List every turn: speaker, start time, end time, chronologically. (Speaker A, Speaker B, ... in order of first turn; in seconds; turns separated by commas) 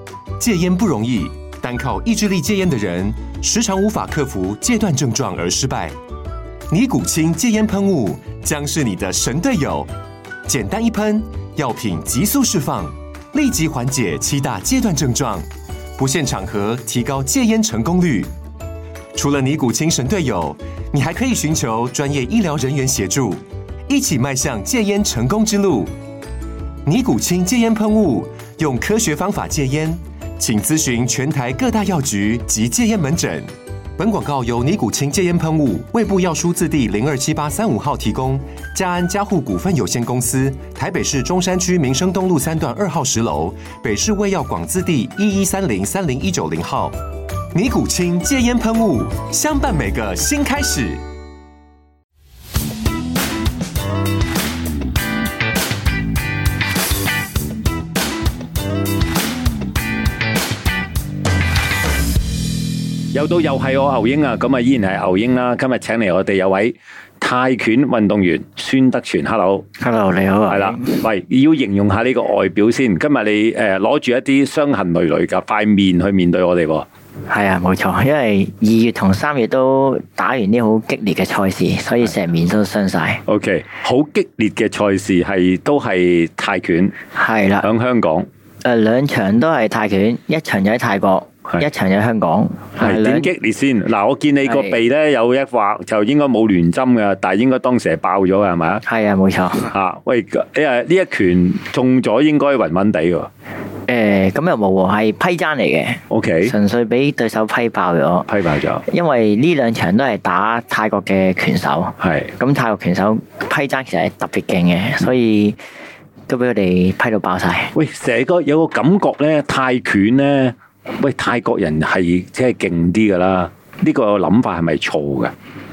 Speaker A: 0.4-6.0, Speaker A: 6.7-9.9, Speaker A: 10.5-18.3, Speaker A: 19.1-25.9, Speaker A: 26.9-47.0, Speaker A: 47.5-51.0, Speaker B: 63.1-69.7, Speaker C: 69.8-71.0, Speaker B: 70.5-76.9, Speaker C: 77.3-83.2, Speaker B: 83.3-87.0, Speaker C: 87.2-87.7, Speaker B: 87.6-88.3, Speaker C: 88.7-93.3, Speaker B: 92.8-98.8, Speaker C: 94.4-94.8, Speaker C: 98.9-99.7, Speaker B: 99.7-103.3, Speaker C: 103.9-108.3, Speaker B: 106.1-106.5, Speaker B: 108.3-108.8, Speaker C: 108.9-115.6, Speaker B: 112.0-112.3, Speaker C: 116.3-117.7, Speaker B: 117.7-125.3